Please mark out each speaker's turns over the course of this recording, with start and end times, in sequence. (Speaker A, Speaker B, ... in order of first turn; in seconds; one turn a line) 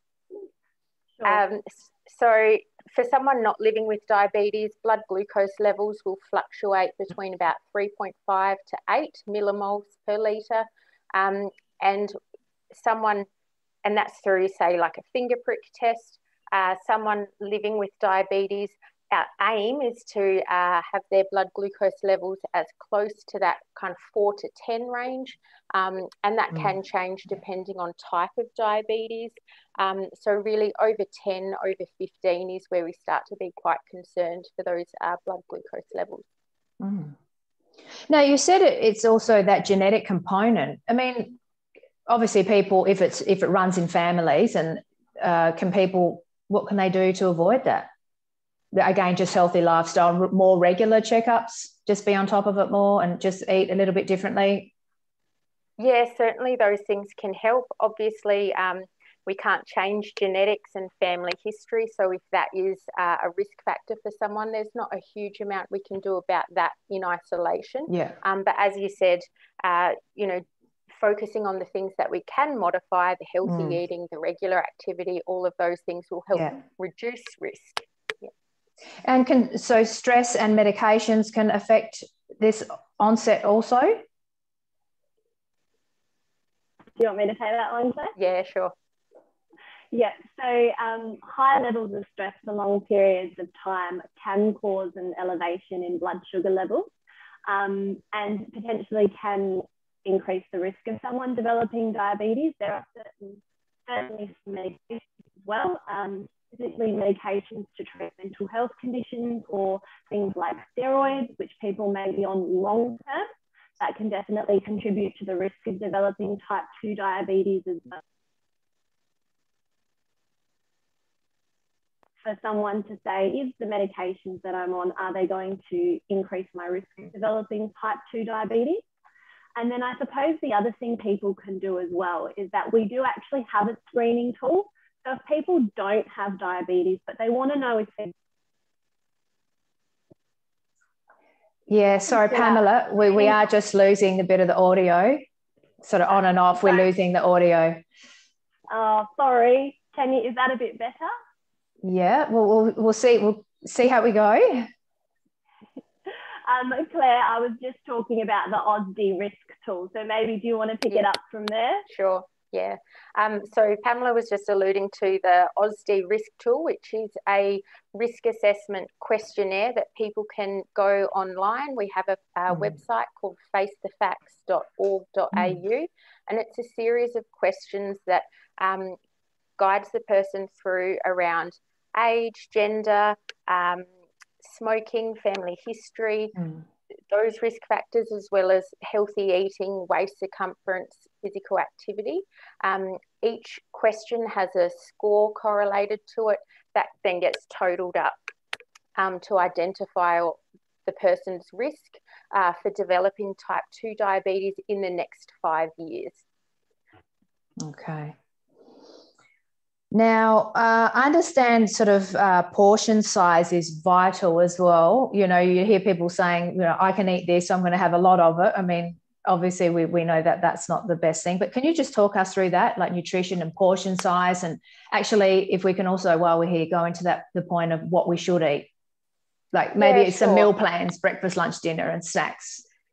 Speaker A: 1.2-12.2
Speaker A: 12.7-13.3
Speaker A: 13.8-36.2
Speaker B: 36.8-37.2
Speaker B: 38.1-41.4
Speaker B: 42.1-47.9
Speaker B: 48.7-54.7
Speaker A: 55.8-78.3
Speaker B: 67.9-68.2
Speaker B: 73.5-73.8
Speaker B: 79.0-84.0
Speaker C: 87.0-88.2
Speaker A: 88.2-88.7
Speaker C: 89.9-96.9
Speaker C: 97.5-118.0
Speaker C: 122.2-128.8
Speaker C: 129.6-138.1
Speaker B: 141.7-145.2
Speaker C: 142.1-142.6
Speaker B: 145.8-147.8
Speaker C: 148.7-151.1
Speaker B: 151.8-154.7
Speaker C: 156.1-161.8
Speaker A: 161.9-179.0
Speaker A: 179.6-183.9
Speaker A: 184.4-186.4
Speaker B: 186.4-186.6
Speaker A: 187.1-198.2
Speaker A: 199.0-206.2
Speaker B: 207.6-208.2
Speaker B: 209.9-228.7
Speaker B: 229.5-232.7
Speaker A: 229.8-230.5